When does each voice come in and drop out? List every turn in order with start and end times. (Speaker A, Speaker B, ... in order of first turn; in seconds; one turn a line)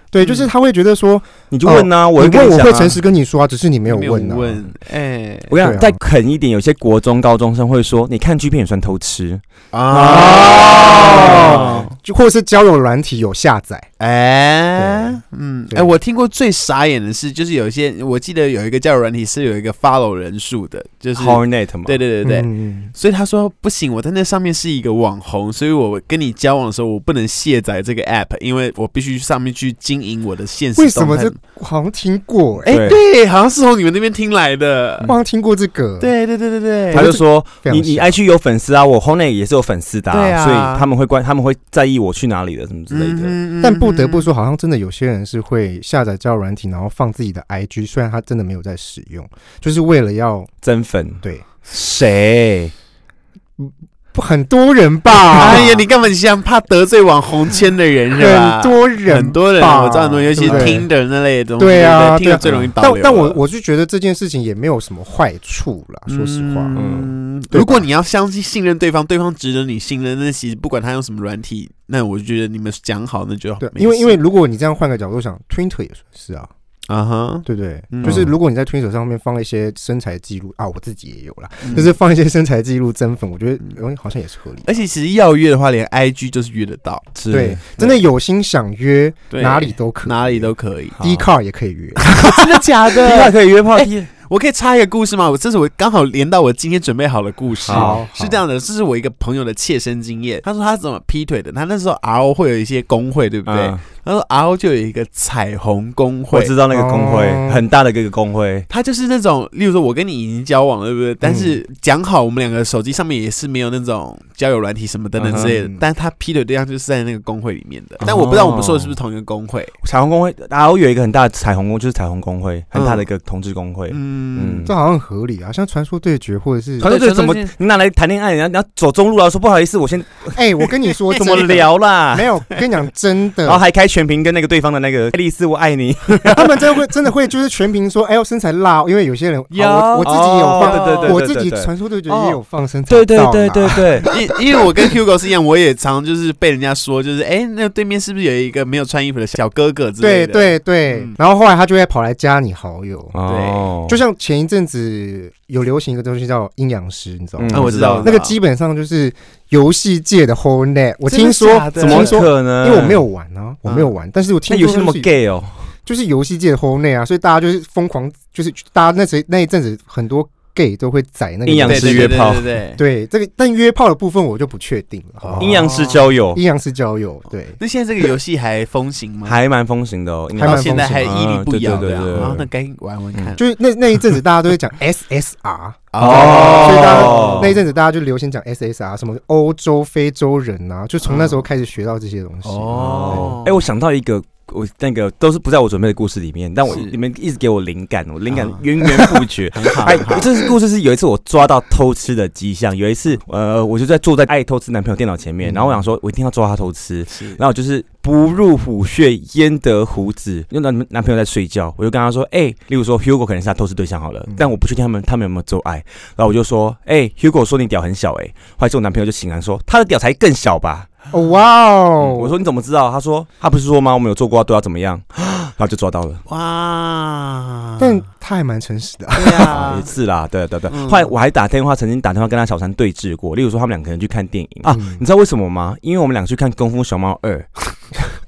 Speaker A: 0.1-4.7
Speaker B: 0.2-0.5
Speaker C: 1.5-3.0
Speaker B: 3.9-5.5
Speaker C: 5.5-11.9
Speaker A: 5.5-6.0
Speaker B: 9.7-11.8
Speaker A: 10.1-13.9
Speaker B: 14.0-31.4
Speaker A: 14.8-15.9
Speaker C: 21.1-22.0
Speaker A: 22.2-22.9
Speaker A: 30.8-32.8
Speaker B: 32.6-35.1
Speaker C: 32.7-33.0
Speaker A: 35.0-36.1
Speaker B: 36.0-37.0
Speaker A: 36.9-38.1
Speaker C: 36.9-43.4
Speaker B: 40.1-40.9
Speaker B: 42.9-44.3
Speaker A: 43.6-50.5
Speaker C: 50.6-52.7
Speaker A: 53.6-55.8
Speaker B: 55.3-63.4
Speaker A: 58.1-60.9
Speaker C: 60.4-60.8
Speaker A: 61.6-66.8
Speaker C: 62.4-62.7
Speaker B: 66.1-74.2
Speaker C: 66.7-67.1
Speaker A: 67.5-67.9
Speaker A: 73.6-76.5
Speaker B: 76.9-78.3
Speaker A: 77.4-84.7
Speaker C: 78.0-78.3
Speaker B: 81.6-82.0
Speaker B: 84.6-87.1
Speaker C: 87.2-87.6
Speaker A: 87.3-92.1
Speaker B: 89.3-90.9
Speaker C: 91.0-91.3
Speaker B: 92.0-106.5
Speaker C: 93.0-94.1
Speaker C: 97.7-98.0
Speaker A: 97.7-98.4
Speaker C: 103.5-103.8
Speaker C: 106.3-108.7
Speaker A: 106.7-107.6
Speaker B: 108.7-119.7
Speaker A: 111.2-111.6
Speaker C: 115.2-115.5
Speaker A: 115.3-115.8
Speaker C: 118.0-119.0
Speaker C: 119.8-124.7
Speaker B: 122.7-123.1
Speaker B: 123.9-124.6
Speaker A: 124.6-126.9
Speaker C: 126.8-130.4
Speaker B: 126.8-127.5
Speaker A: 130.3-133.6
Speaker B: 130.8-131.7
Speaker C: 131.2-132.3
Speaker C: 133.4-136.5
Speaker A: 136.2-144.9
Speaker B: 139.5-141.2
Speaker C: 139.6-141.7
Speaker B: 142.1-142.4
Speaker C: 142.9-144.1
Speaker B: 144.0-151.2
Speaker A: 150.0-153.2
Speaker C: 153.1-154.0
Speaker B: 153.3-153.7
Speaker A: 153.9-165.1
Speaker C: 157.4-158.1
Speaker B: 157.5-158.3
Speaker B: 161.0-162.3
Speaker C: 161.8-163.0
Speaker B: 163.6-163.9
Speaker C: 164.5-165.7
Speaker A: 165.8-172.2
Speaker C: 171.4-172.5
Speaker B: 171.6-172.8
Speaker A: 172.7-175.8
Speaker B: 175.2-176.1
Speaker C: 175.4-176.4
Speaker A: 176.3-177.6
Speaker B: 177.6-179.4
Speaker C: 179.2-182.4
Speaker B: 180.4-183.4
Speaker A: 180.4-181.2
Speaker A: 182.1-182.5
Speaker A: 183.4-193.4
Speaker B: 185.9-187.6
Speaker C: 186.0-187.6
Speaker B: 191.0-191.4
Speaker B: 192.4-193.6
Speaker C: 192.8-220.9
Speaker B: 196.7-196.9
Speaker B: 198.3-200.3
Speaker B: 205.4-205.9
Speaker B: 207.1-207.4
Speaker A: 221.1-222.4
Speaker C: 222.0-226.2
Speaker B: 226.3-228.0
Speaker A: 227.8-229.5
Speaker B: 229.1-229.9
Speaker C: 229.5-238.0
Speaker B: 230.7-231.1
Speaker A: 234.7-235.0